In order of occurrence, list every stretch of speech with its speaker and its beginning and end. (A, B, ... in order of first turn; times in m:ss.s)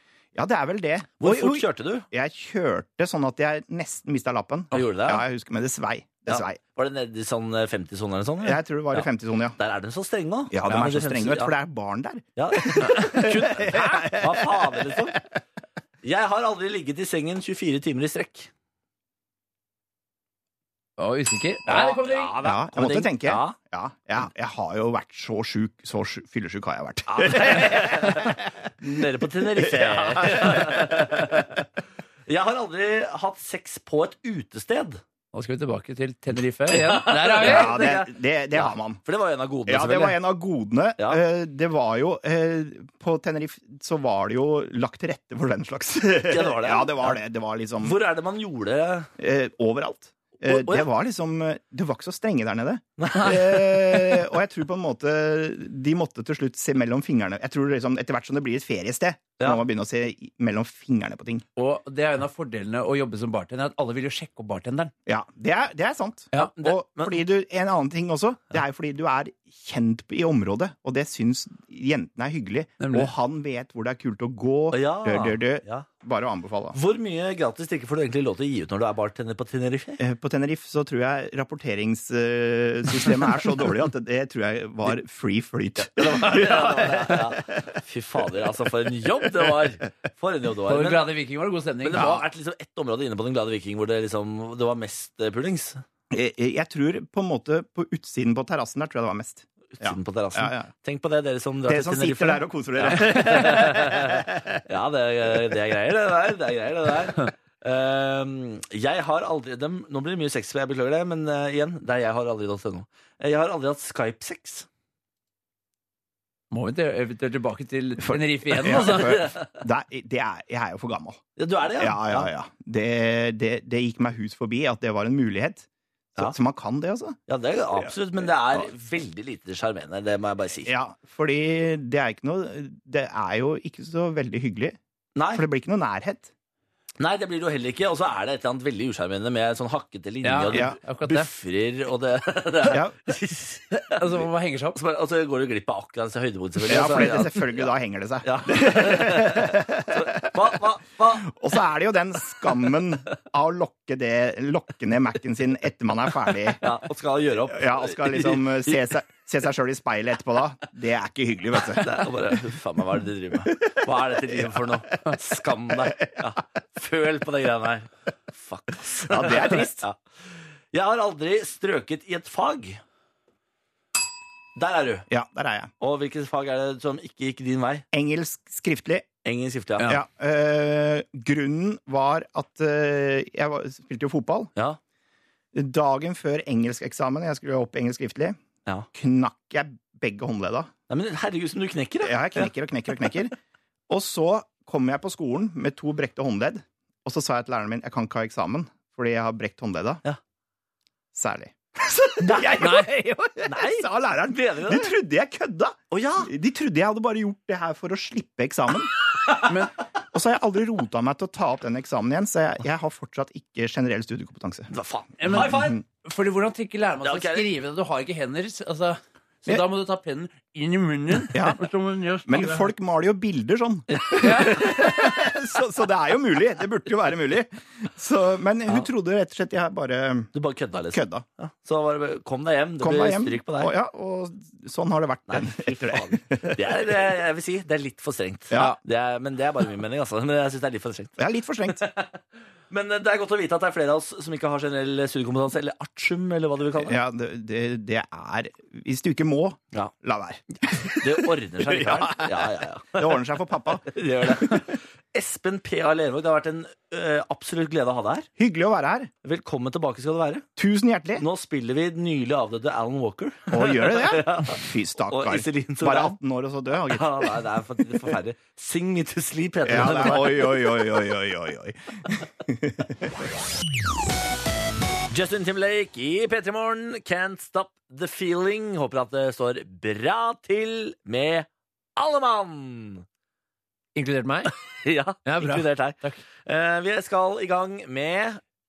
0:00.3-0:06.6 A
0:01.2-0:02.0 B
0:04.7-0:05.2 B
0:06.3-0:11.5 B
0:08.4-0:09.6 A
0:10.5-0:15.2 A
0:12.4-0:15.2 B
0:16.0-0:18.5 B
0:21.0-0:22.4 C
0:21.7-0:23.6 B
0:22.4-0:28.5 A
0:27.1-0:31.6 B
0:29.6-0:31.3 A
0:32.3-0:35.0 B
0:35.3-0:37.8 C
0:36.7-0:40.2 B
0:37.4-0:39.0 A
0:39.7-0:48.0 A
0:46.2-0:47.2 B
0:47.8-0:49.1 B
0:49.2-1:01.4 A
0:50.4-0:50.9 B
0:53.0-0:54.2 B
1:01.6-1:04.9 C
1:05.0-1:16.8 A
1:06.4-1:07.2 B
1:12.8-1:13.1 C
1:14.7-1:15.9 B
1:16.7-1:20.0 B
1:20.0-1:27.6 A
1:25.8-1:31.1 B
1:30.7-1:32.2 C
1:31.8-1:35.8 B
1:36.1-1:40.7 A
1:39.8-1:54.7 B
1:41.7-1:44.6 A
1:56.5-1:59.2 C
1:58.0-2:01.2 A
1:58.6-1:59.5 B
2:01.4-2:02.3 B
2:01.8-2:07.2 A
2:07.3-2:10.7 B
2:10.6-2:14.8 A
2:15.2-2:15.4 B
2:15.3-2:16.3 A
2:17.0-2:27.7 B
2:20.2-2:21.3 C
2:22.7-2:22.9 A
2:23.8-2:24.8 C
2:26.6-2:30.6 A
2:28.2-2:31.3 B
2:31.2-2:36.6 A
2:36.6-2:38.9 B
2:37.5-2:42.1 A
2:41.7-2:50.0 B
2:43.4-2:45.2 A
2:49.0-2:49.8 A
2:50.7-2:52.8 B
2:54.6-2:55.0 B
2:55.1-2:55.7 A
2:55.8-2:57.8 B
2:57.9-2:59.0 A
2:59.2-2:59.9 B
2:59.9-3:04.5 A
3:05.5-3:08.4 A
3:08.9-3:10.7 A
3:10.9-3:12.5 B
3:12.0-3:13.3 A
3:13.9-3:20.0 A
3:21.1-3:28.9 A
3:22.2-3:22.8 B
3:22.6-3:23.1 C
3:23.4-3:24.9 B
3:25.9-3:26.3 B
3:29.4-3:29.7 C
3:30.1-3:34.7 A
3:34.7-3:35.8 B
3:35.2-3:42.7 C
3:35.2-3:35.8 A
3:37.0-3:37.5 B
3:41.3-3:41.6 A
3:42.2-3:50.3 A
3:43.9-3:44.9 B
3:44.2-3:44.8 C
3:50.3-3:53.7 B
3:50.9-3:51.2 A
3:52.8-3:57.0 A
3:55.3-4:01.2 B
3:58.5-3:58.8 A
3:58.5-3:58.8 C
4:01.2-4:01.8 A
4:01.7-4:07.0 B
4:06.8-4:14.7 A
4:11.0-4:13.2 B
4:13.8-4:18.3 B
4:18.4-4:19.1 A
4:19.2-4:20.4 B
4:20.6-4:21.2 A
4:21.2-4:26.2 B
4:23.5-4:28.1 A
4:26.9-4:30.7 B
4:29.6-4:33.3 A
4:35.1-4:43.0 B
4:44.0-4:44.5 C
4:44.7-4:48.4 B
4:45.2-4:46.2 C